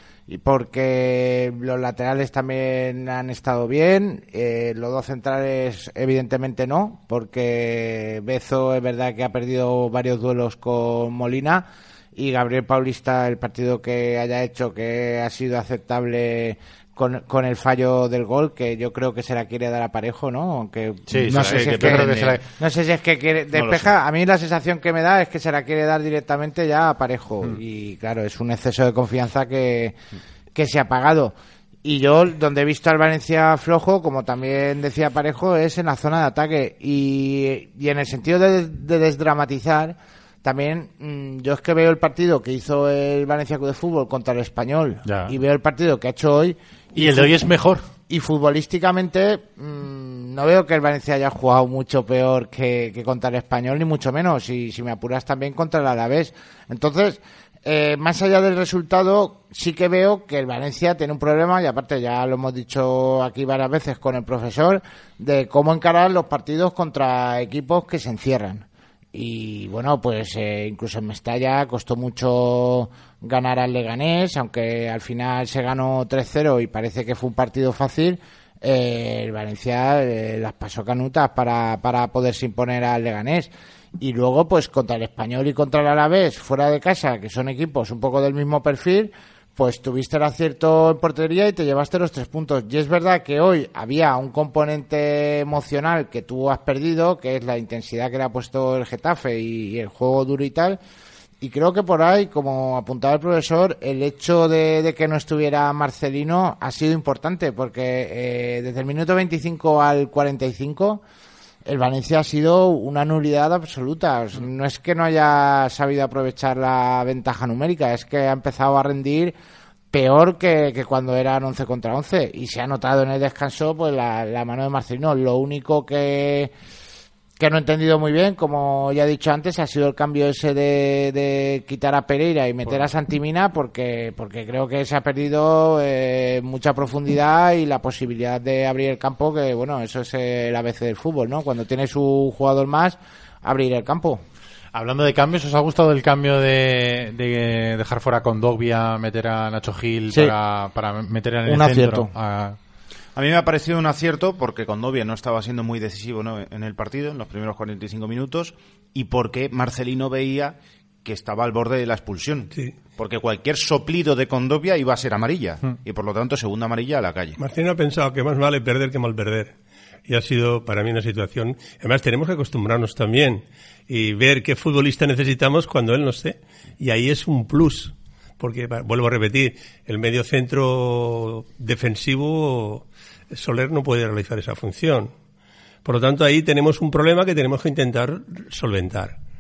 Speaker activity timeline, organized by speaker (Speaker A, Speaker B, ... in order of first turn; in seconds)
Speaker A: 0.3-29.9, 30.6-47.3, 48.1-83.5, 84.0-100.8, 101.4-111.0, 111.7-119.3, 119.9-126.5, 127.4-144.2, 151.5-152.1
Speaker B: 21.1-22.4, 45.0-45.3, 46.9-47.8, 144.7-152.6
Speaker C: 21.2-22.4, 23.5-23.9, 153.2-167.4
Speaker D: 167.4-169.5, 170.1-185.1, 185.8-189.2